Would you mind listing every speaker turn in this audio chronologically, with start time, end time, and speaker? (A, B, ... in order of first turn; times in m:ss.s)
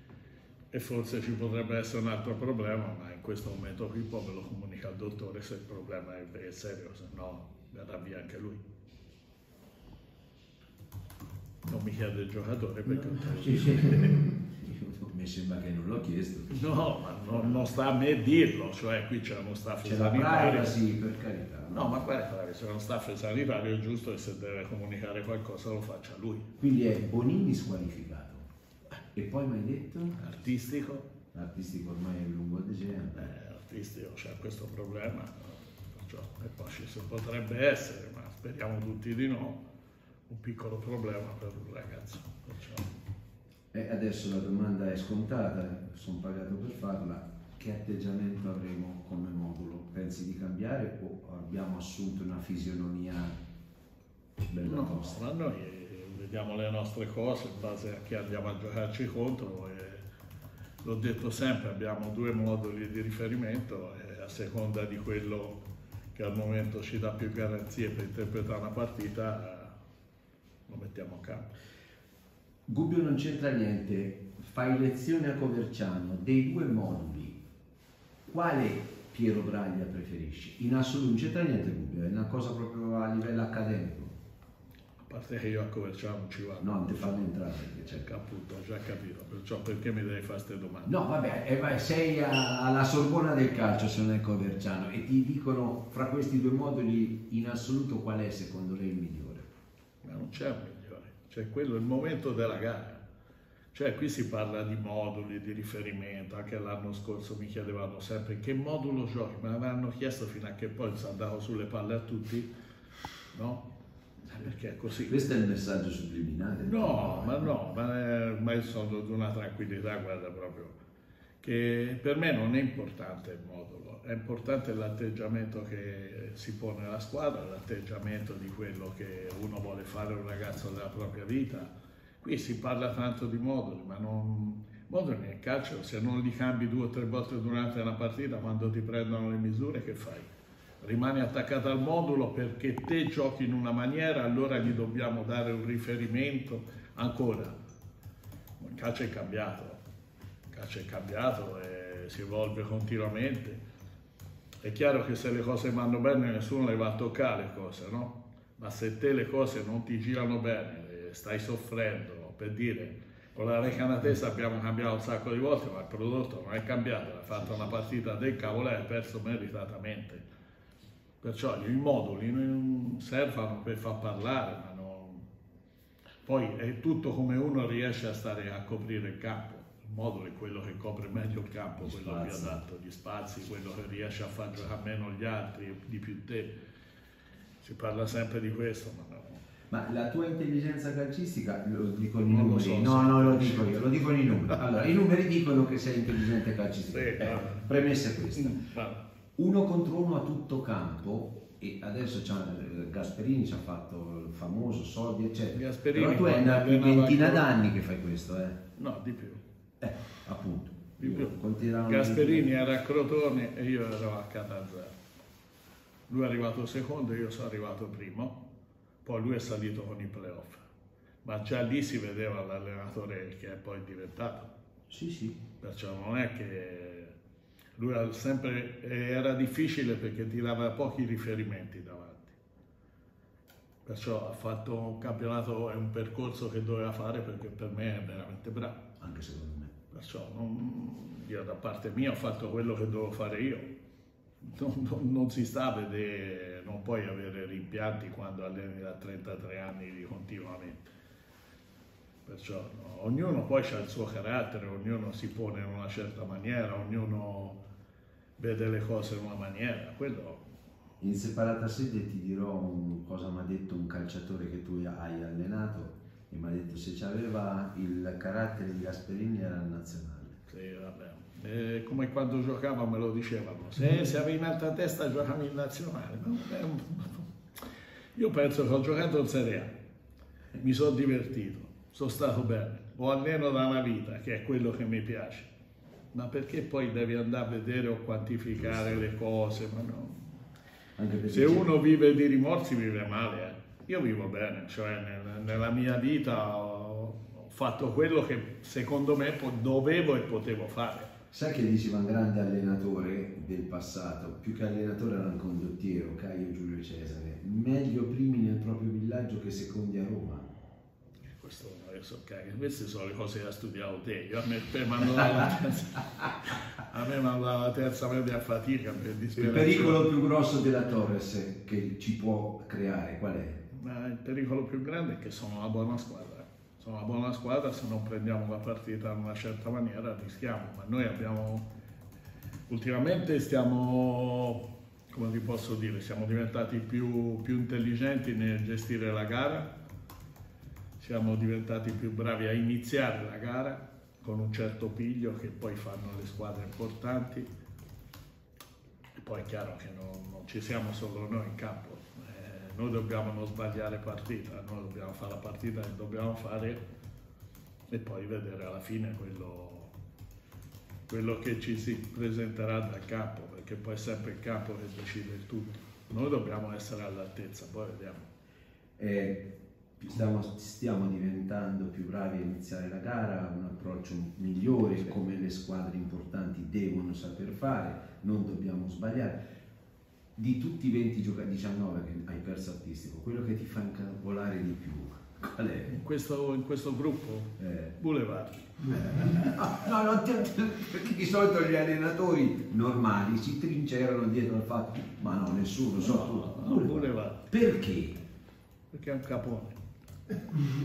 0:00.7-0:08.6 A
0:11.6-0:14.2 A
0:12.8-0:17.7 B
0:16.5-0:20.7 A
0:19.8-0:22.0 B
0:21.7-0:26.5 A
0:26.6-0:28.4 B
0:29.1-0:30.2 B
0:30.2-0:31.1 A
0:31.3-0:33.3 B
0:33.2-0:39.6 A
0:40.3-0:42.9 A
0:43.7-0:53.4 B
0:54.5-0:55.2 B
0:54.6-1:00.0 A
1:00.8-1:05.6 A
1:06.1-1:09.8 A
1:10.7-1:11.5 A
1:12.7-1:17.4 B
1:18.2-1:24.1 B
1:25.0-1:30.9 A
1:26.6-1:28.1 B
1:30.8-1:39.5 B
1:40.0-1:43.0 A
1:43.7-1:52.5 A
1:53.3-1:53.6 A
1:54.2-1:55.2 A
1:55.0-1:57.5 B
1:56.6-2:00.8 A
2:01.4-2:20.3 A
2:20.8-2:27.6 A
2:28.6-2:29.8 A
2:30.5-2:33.6 A
2:34.6-2:50.2 A
2:47.4-2:47.7 B
2:51.2-2:55.2 A
2:56.2-3:06.6 A
3:01.8-3:02.6 B
3:07.6-3:09.4 A
3:09.7-3:18.6 B
3:12.3-3:14.7 A
3:16.9-3:17.8 A
3:18.3-3:19.0 A
3:19.4-3:28.6 B
3:25.5-3:27.5 A
3:28.8-3:29.4 A
3:29.8-3:32.5 B
3:31.0-3:34.9 A
3:36.1-3:38.4 A
3:39.0-3:40.6 A
3:41.2-3:44.5 A
3:44.9-3:45.4 B
3:45.6-3:47.1 A
3:47.8-3:52.4 A
3:53.8-3:58.8 A
3:59.0-3:59.7 B
3:59.9-4:03.7 A
4:04.4-4:10.9 A
4:12.2-4:17.6 A
4:18.4-4:20.4 A
4:21.0-4:30.4 B
4:30.5-4:37.3 A
4:38.1-4:39.7 A
4:40.5-4:45.5 A
4:46.1-4:50.3 A
4:48.7-4:49.0 B
4:51.0-4:51.7 B
4:51.3-5:01.1 A
5:01.3-5:10.5 B
5:11.3-5:20.1 A
5:19.4-5:23.6 B
5:23.7-5:31.7 A
5:32.7-5:39.7 A
5:41.0-5:47.5 A
5:49.1-5:56.8 A
5:57.9-5:59.9 A
6:01.1-6:08.3 A
6:09.0-6:19.4 B
6:20.4-6:26.0 B
6:25.9-6:29.3 A
6:27.6-6:27.9 B
6:28.9-6:38.2 B
6:36.0-6:37.5 A
6:38.9-6:39.8 A